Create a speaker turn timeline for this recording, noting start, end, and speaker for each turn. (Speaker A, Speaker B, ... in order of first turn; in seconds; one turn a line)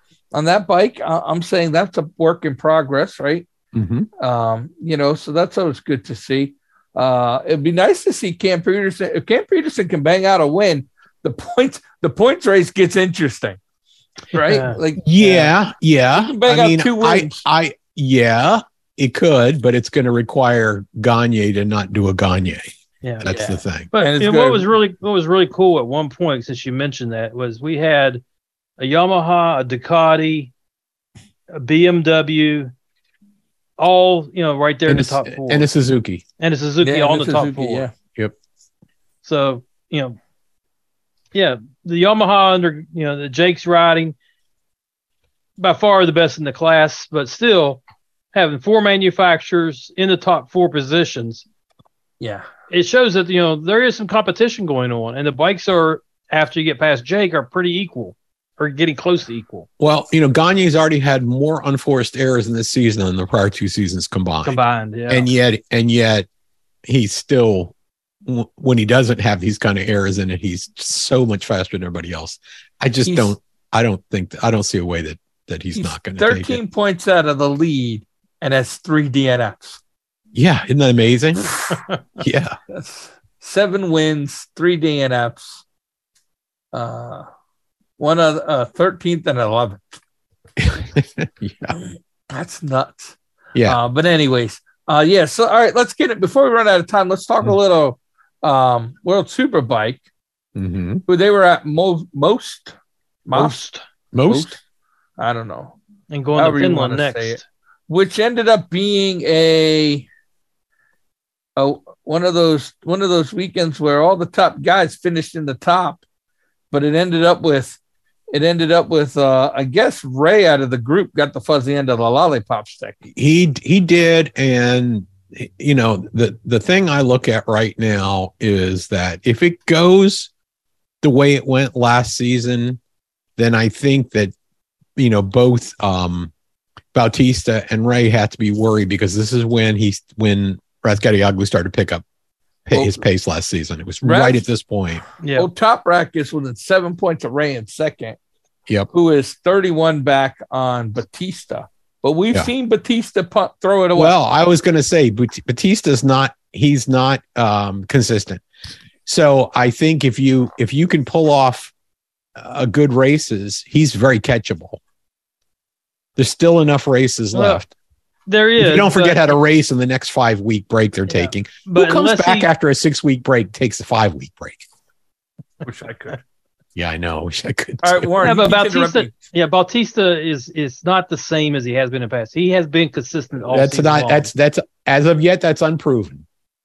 Speaker A: 0.3-3.5
Speaker B: 3.7-4.1
Speaker A: 4.2-13.6
Speaker A: 14.3-15.5
Speaker C: 14.3-14.8
Speaker B: 15.0-22.6
Speaker A: 16.1-17.4
Speaker B: 23.2-23.9
Speaker A: 23.2-24.7
Speaker C: 23.9-28.2
Speaker C: 28.8-30.5
Speaker C: 31.5-32.7
Speaker C: 33.8-35.6
Speaker B: 34.9-36.2
Speaker C: 36.4-37.9
Speaker A: 36.8-37.9
Speaker C: 39.2-40.1
Speaker C: 41.3-44.1
Speaker C: 45.6-47.8
Speaker C: 48.3-51.4
Speaker C: 52.7-59.7
Speaker B: 59.8-66.3
Speaker C: 64.4-65.3
Speaker B: 66.8-67.7
Speaker B: 68.2-76.6
Speaker A: 73.0-73.3
Speaker A: 75.7-79.8
Speaker B: 80.3-81.6
Speaker B: 82.2-82.5
Speaker A: 82.7-85.6
Speaker A: 86.7-87.3
Speaker A: 88.0-89.8
Speaker B: 90.6-91.8
Speaker A: 91.7-100.0
Speaker B: 100.5-101.0
Speaker A: 101.1-102.7
Speaker A: 103.2-103.6
Speaker C: 103.3-103.8
Speaker B: 104.1-104.5
Speaker A: 104.3-104.6
Speaker A: 105.2-105.8
Speaker C: 106.1-107.4
Speaker A: 106.3-110.0
Speaker A: 111.5-116.0
Speaker A: 116.7-117.8
Speaker A: 118.3-123.1
Speaker B: 123.2-130.3
Speaker B: 131.0-132.8
Speaker B: 133.4-134.3
Speaker B: 134.9-136.3
Speaker B: 136.9-142.0
Speaker B: 142.7-145.0
Speaker A: 142.7-143.0
Speaker A: 144.0-144.4
Speaker C: 145.2-145.5
Speaker A: 145.3-148.2
Speaker A: 148.9-154.1
Speaker B: 153.9-158.4
Speaker B: 159.1-161.7
Speaker B: 162.3-164.8
Speaker B: 166.2-167.7
Speaker C: 167.3-167.6
Speaker C: 168.3-169.2
Speaker B: 168.6-174.6
Speaker C: 171.1-172.5
Speaker A: 175.6-176.2
Speaker B: 176.8-178.4
Speaker A: 177.8-179.3
Speaker C: 178.2-184.3
Speaker B: 183.5-186.2